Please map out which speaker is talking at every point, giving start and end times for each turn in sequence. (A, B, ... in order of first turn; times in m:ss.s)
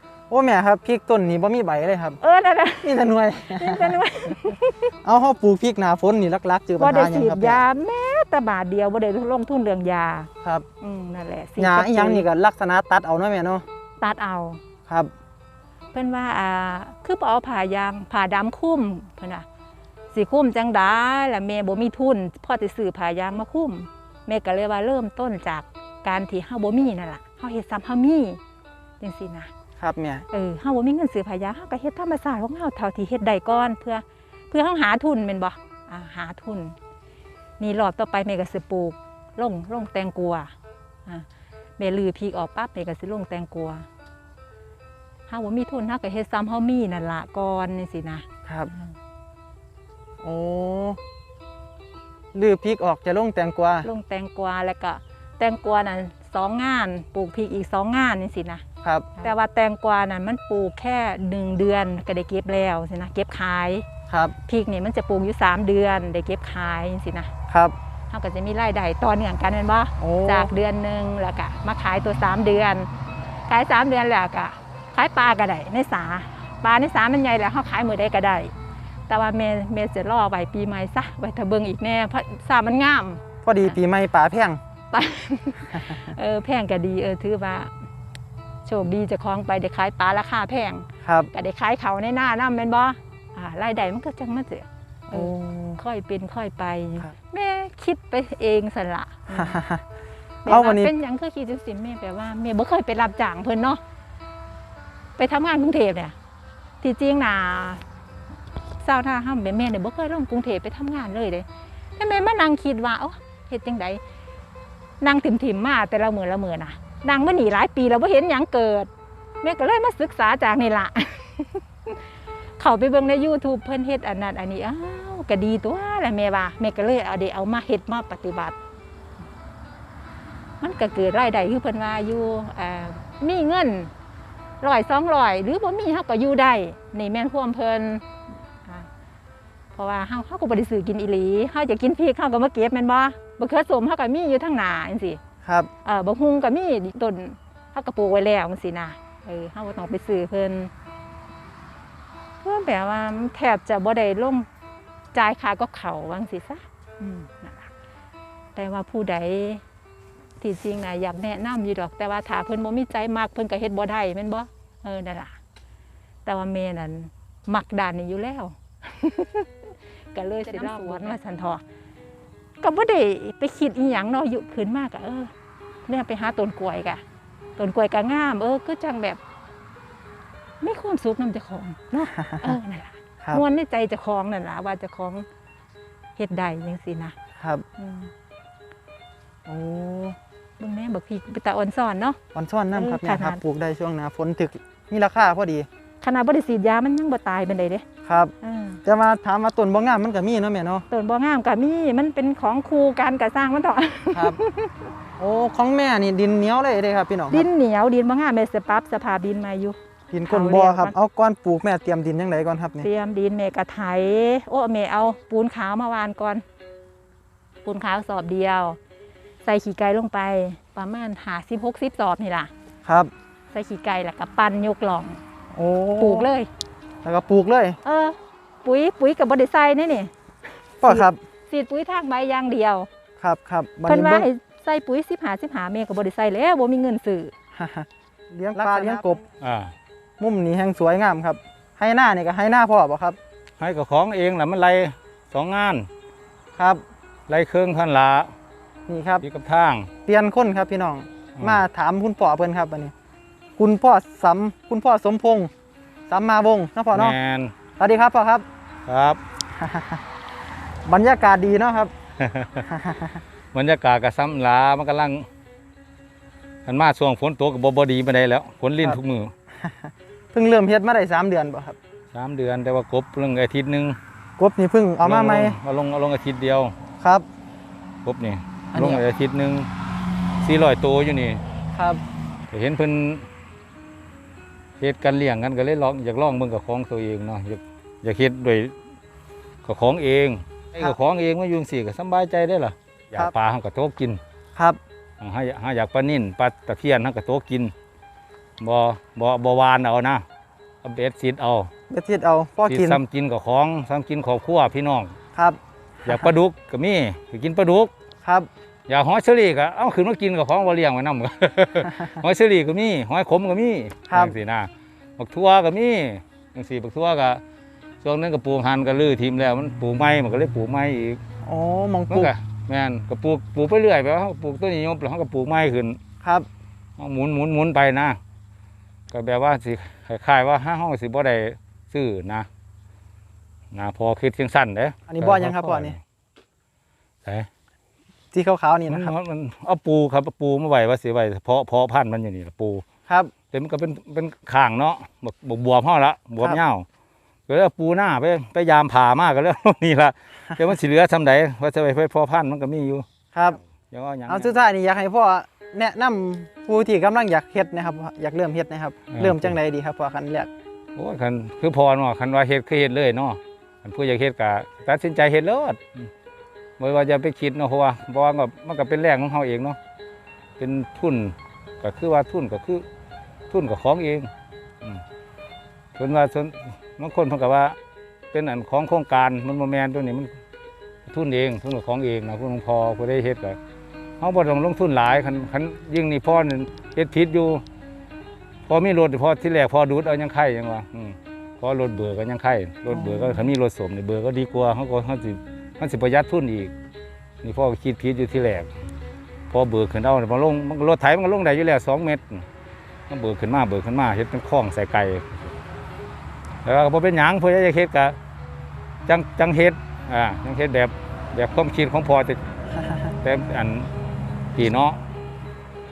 0:00.3-0:02.2 A
0:02.2-0:04.9 B
0:02.8-0:04.4 A
0:05.0-0:07.6 A
0:06.8-0:10.3 B
0:10.8-0:12.2 B
0:11.6-0:13.6 A
0:14.0-0:14.6 B
0:15.9-0:19.4 B
0:20.1-0:28.4 B
0:29.0-0:29.5 B
0:29.8-0:30.3 A
0:30.3-0:36.8 B
0:37.6-0:40.5 B
0:41.8-0:43.8 B
0:45.3-0:48.9 B
0:48.5-0:48.7 A
0:50.2-0:51.0 A
0:52.3-0:53.9 A
0:53.8-0:58.6 B
0:58.8-0:59.3 A
0:59.2-1:03.9 B
1:04.1-1:04.4 A
1:04.4-1:07.3 B
1:07.5-1:07.8 A
1:08.1-1:12.9 B
1:10.0-1:10.5 A
1:13.5-1:18.5 B
1:19.1-1:23.8 B
1:23.4-1:24.6 A
1:24.9-1:27.7 B
1:25.7-1:26.1 A
1:28.6-1:39.6 B
1:31.0-1:31.3 A
1:35.1-1:35.8 A
1:39.3-1:39.8 A
1:40.4-1:40.9 A
1:40.4-1:43.8 B
1:45.2-1:46.2 B
1:46.8-1:47.8 B
1:48.8-1:51.5 B
1:52.0-1:54.0 B
1:55.0-1:58.9 B
1:59.4-2:02.0 B
2:02.6-2:08.6 B
2:10.6-2:13.9 B
2:14.6-2:18.1 B
2:19.7-2:25.2 B
2:25.4-2:25.7 A
2:25.8-2:30.7 B
2:32.4-2:34.5 B
2:35.1-2:37.7 B
2:38.6-2:39.6 B
2:40.4-2:45.4 B
2:46.2-2:49.5 B
2:50.1-2:51.6 B
2:52.6-2:55.3 B
2:55.9-2:57.0 B
2:57.6-2:59.2 B
3:00.6-3:05.3 B
3:02.2-3:02.6 A
3:06.2-3:07.2 B
3:07.4-3:07.6 A
3:07.8-3:08.1 B
3:09.5-3:10.2 A
3:10.6-3:12.2 B
3:12.4-3:15.7 A
3:12.7-3:13.4 B
3:16.0-3:17.8 B
3:18.0-3:18.3 A
3:18.4-3:18.8 B
3:18.8-3:20.8 A
3:20.9-3:24.9 B
3:24.1-3:24.4 A
3:25.2-3:27.5 A
3:27.3-3:29.8 B
3:30.1-3:32.9 A
3:30.3-3:31.0 B
3:32.8-3:36.4 B
3:37.6-3:38.8 B
3:39.4-3:42.5 B
3:42.8-3:43.1 A
3:43.5-3:45.2 B
3:45.5-3:46.3 A
3:46.0-3:46.5 B
3:47.0-3:47.8 A
3:47.8-3:50.1 B
3:50.8-3:51.2 A
3:50.8-3:52.9 B
3:53.2-3:54.3 A
3:53.9-3:57.3 B
3:57.5-3:59.2 A
3:58.6-3:59.7 C
4:00.2-4:03.2 A
4:03.6-4:05.9 C
4:06.6-4:06.8 A
4:07.3-4:08.3 C
4:08.9-4:09.2 A
4:09.2-4:09.9 C
4:10.1-4:12.9 A
4:13.6-4:15.5 A
4:16.1-4:17.2 A
4:16.9-4:17.5 C
4:17.8-4:18.5 A
4:18.9-4:19.2 C
4:19.6-4:20.0 A
4:20.8-4:21.9 A
4:22.2-4:22.7 C
4:22.7-4:23.2 A
4:23.5-4:25.3 C
4:26.7-4:29.3 C
4:29.5-4:31.8 A
4:32.1-4:34.0 C
4:34.4-4:35.6 A
4:35.0-4:36.8 C
4:37.0-4:37.3 A
4:38.0-4:39.7 C
4:38.7-4:39.0 A
4:40.4-4:41.4 C
4:41.7-4:42.0 A
4:42.5-4:43.3 C
4:44.8-4:48.7 C
4:49.6-4:54.2 C
4:54.6-4:54.8 A
4:55.2-4:57.7 C
4:58.6-5:00.2 C
5:00.8-5:01.7 C
5:01.9-5:03.0 A
5:02.7-5:05.1 C
5:05.3-5:06.3 A
5:06.0-5:07.9 C
5:08.2-5:08.5 A
5:08.9-5:17.4 C
5:14.1-5:14.4 A
5:18.0-5:21.2 C
5:21.4-5:22.3 A
5:22.1-5:26.0 C
5:26.2-5:26.5 A
5:27.0-5:28.2 C
5:29.1-5:32.5 C
5:33.7-5:36.0 C
5:35.1-5:36.0 A
5:38.3-5:39.1 A
5:38.9-5:42.8 C
5:43.1-5:43.3 A
5:43.5-5:46.8 C
5:47.5-5:53.1 C
5:53.3-5:53.6 A
5:53.8-5:54.5 C
5:54.3-6:00.5 A
5:59.1-5:59.6 C
6:01.0-6:06.1 C
6:06.8-6:09.8 C
6:10.6-6:12.8 C
6:13.5-6:14.3 C
6:16.0-6:17.8 C
6:18.3-6:20.4 C
6:21.1-6:23.6 C
6:24.2-6:27.6 C
6:28.7-6:36.7 C
6:32.9-6:33.5 A
6:37.4-6:38.7 C
6:39.5-6:42.4 C
6:43.1-6:45.6 C
6:46.6-6:48.2 C
6:49.1-6:52.4 C
6:52.8-6:53.1 A
6:53.2-6:53.9 C
6:54.6-6:55.0 C